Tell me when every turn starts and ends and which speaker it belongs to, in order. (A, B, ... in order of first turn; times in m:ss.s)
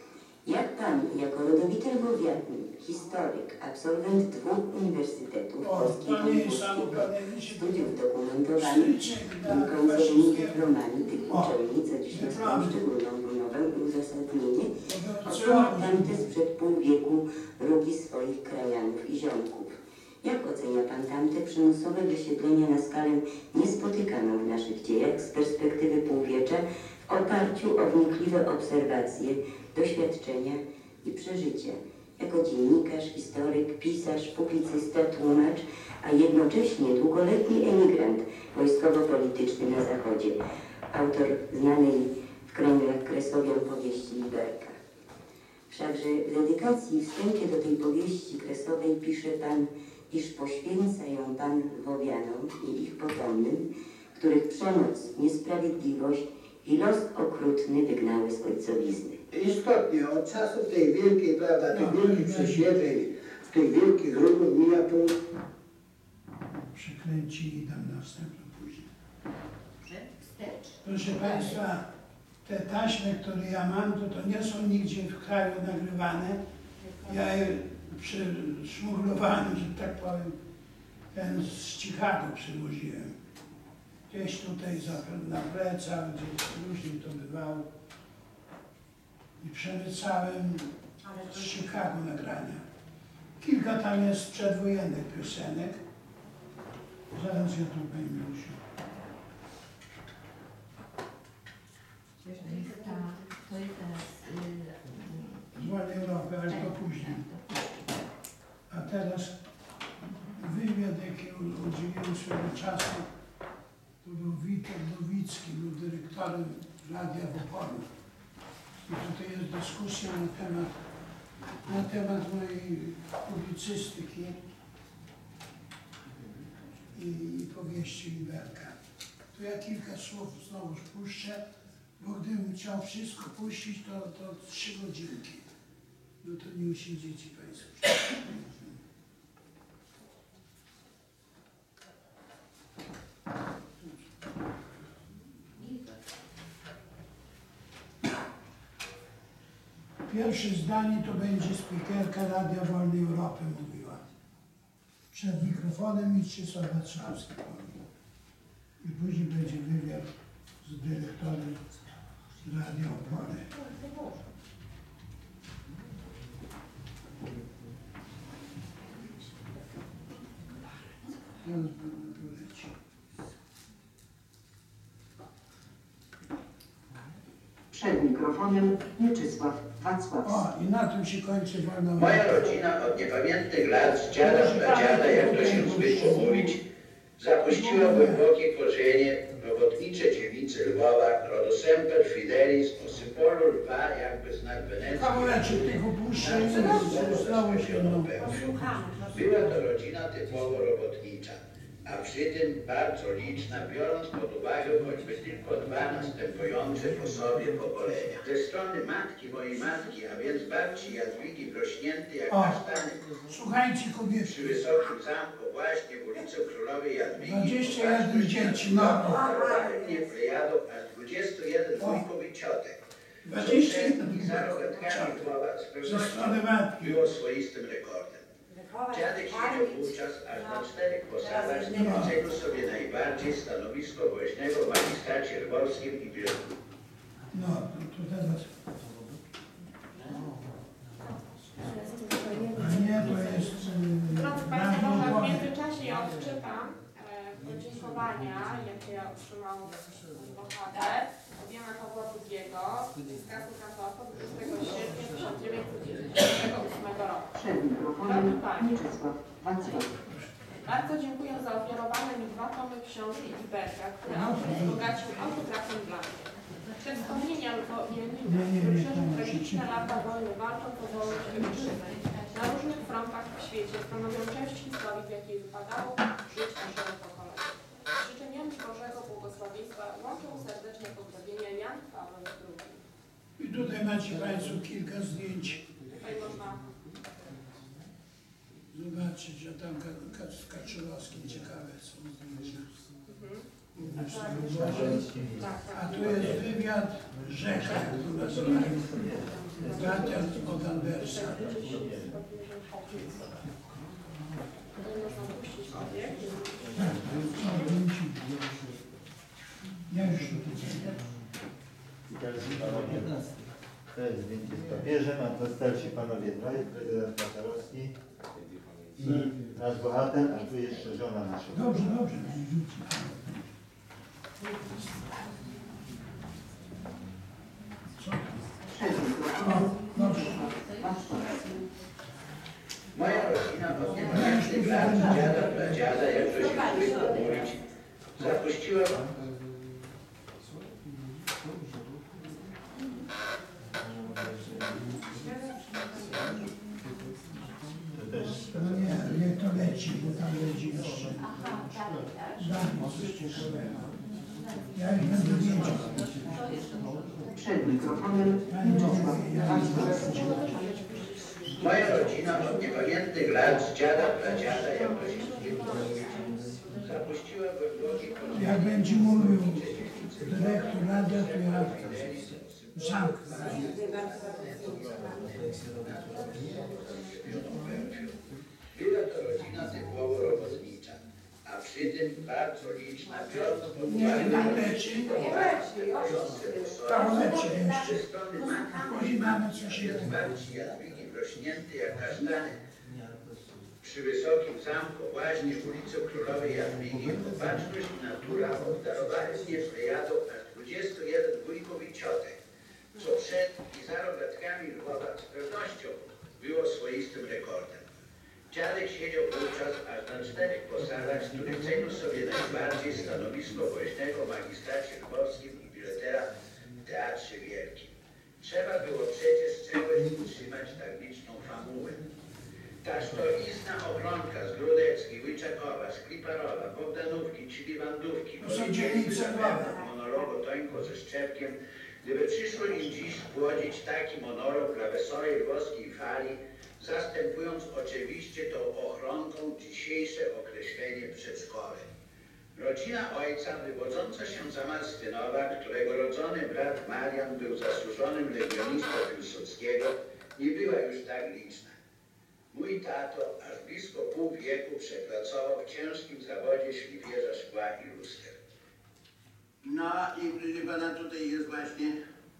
0:00.4-0:14.7 A
0:05.6-0:08.0 B
0:08.6-0:10.8 B
0:11.3-0:11.5 B
0:12.1-0:12.8 B
0:14.8-0:16.2 B
0:15.2-0:40.4 A
0:40.9-0:44.8 A
0:45.7-0:59.2 A
0:59.3-1:01.6 C
1:01.2-1:02.6 D
1:01.7-1:02.7 B
1:02.1-1:05.1 C
1:06.7-1:08.9 B
1:09.8-1:11.4 E
1:10.8-1:11.8 B
1:11.2-1:11.5 F
1:12.4-1:16.4 B
1:16.8-1:17.4 F
1:17.0-1:20.4 B
1:21.1-1:23.1 B
1:24.1-1:27.7 B
1:29.4-1:32.6 B
1:31.0-1:31.9 F
1:33.4-1:35.8 B
1:37.1-1:38.6 B
1:42.2-1:45.6 E
1:42.4-1:43.3 F
1:45.5-1:47.2 B
1:46.5-1:47.6 E
1:48.7-1:49.4 B
1:50.4-1:53.0 B
1:54.0-1:57.8 B
1:58.8-2:00.7 B
2:01.6-2:04.4 B
2:06.9-2:08.8 B
2:09.3-2:11.4 B
2:12.0-2:15.4 B
2:16.2-2:18.8 B
2:25.6-2:26.0 E
2:30.1-2:34.0 B
2:35.1-2:37.8 B
2:38.8-2:40.1 B
2:40.6-2:41.6 B
2:42.4-2:43.5 B
2:43.6-2:44.1 F
2:51.4-2:52.7 B
2:57.7-3:00.4 F
3:00.2-3:02.6 B
3:02.0-3:06.6 D
3:04.2-3:06.6 B
3:07.2-3:18.5 D
3:07.4-3:08.2 B
3:14.9-3:18.2 B
3:16.6-3:16.9 F
3:18.2-3:19.5 F
3:19.1-3:33.2 D
3:32.3-3:32.6 B
3:33.2-3:34.6 B
3:34.2-3:42.8 D
3:37.2-3:39.3 B
3:39.0-3:40.1 F
3:41.8-3:42.0 B
3:43.2-3:45.2 B
3:43.3-3:48.2 D
3:45.8-3:47.0 B
3:48.5-3:50.7 F
3:48.9-3:56.5 D
3:51.2-3:52.4 F
3:51.8-3:52.2 B
3:57.3-3:58.5 B
4:01.6-4:03.3 G
4:01.7-4:02.9 F
4:02.5-4:05.5 B
4:04.1-4:17.4 G
4:17.3-4:20.0 F
4:18.0-4:18.8 G
4:20.6-4:42.8 G
4:24.1-4:24.9 B
4:28.2-4:29.7 B
4:31.2-4:32.8 E
4:43.4-4:45.7 B
4:45.9-4:46.6 G
4:48.7-4:52.7 B
4:53.0-4:53.4 G
4:53.7-4:55.1 B
4:54.0-4:56.4 H
4:54.2-4:56.4 G
4:55.7-4:58.8 B
4:57.7-5:03.4 G
4:58.3-5:00.3 H
4:59.6-5:01.6 B
5:01.6-5:02.1 H
5:04.7-5:07.7 G
5:06.7-5:08.2 B
5:09.9-5:11.1 B
5:12.1-5:13.3 H
5:13.9-5:17.9 H
5:19.0-5:22.1 H
5:21.5-5:23.4 B
5:28.0-5:28.5 B
5:28.7-5:31.6 F
5:29.4-5:30.4 B
5:32.9-5:37.6 D
5:34.0-5:35.8 B
5:34.8-5:37.5 F
5:36.0-5:37.4 G
5:38.1-5:39.0 D
5:45.0-5:46.5 F
5:47.9-5:49.0 H
5:48.5-5:51.2 B
5:51.2-5:52.6 E
5:52.4-5:53.8 B
5:54.7-5:56.0 B
5:56.0-5:57.3 E
5:57.3-6:00.6 F
5:58.4-6:00.4 B
5:59.4-6:02.7 G
6:01.6-6:32.6 D
6:04.9-6:06.2 G
6:08.3-6:11.8 B
6:12.7-6:13.7 B
6:13.3-6:15.4 F
6:17.3-6:17.9 B
6:23.9-6:25.3 B
6:25.0-6:29.0 F
6:25.1-6:25.9 E
6:26.8-6:28.0 B
6:28.8-6:30.2 B
6:33.8-6:42.4 D
6:42.9-6:47.8 D
6:48.5-6:56.3 D
6:56.8-7:02.0 D
7:02.8-7:21.8 D
7:08.4-7:09.8 B
7:22.5-7:31.8 D
7:32.5-7:38.4 D
7:39.6-7:42.0 D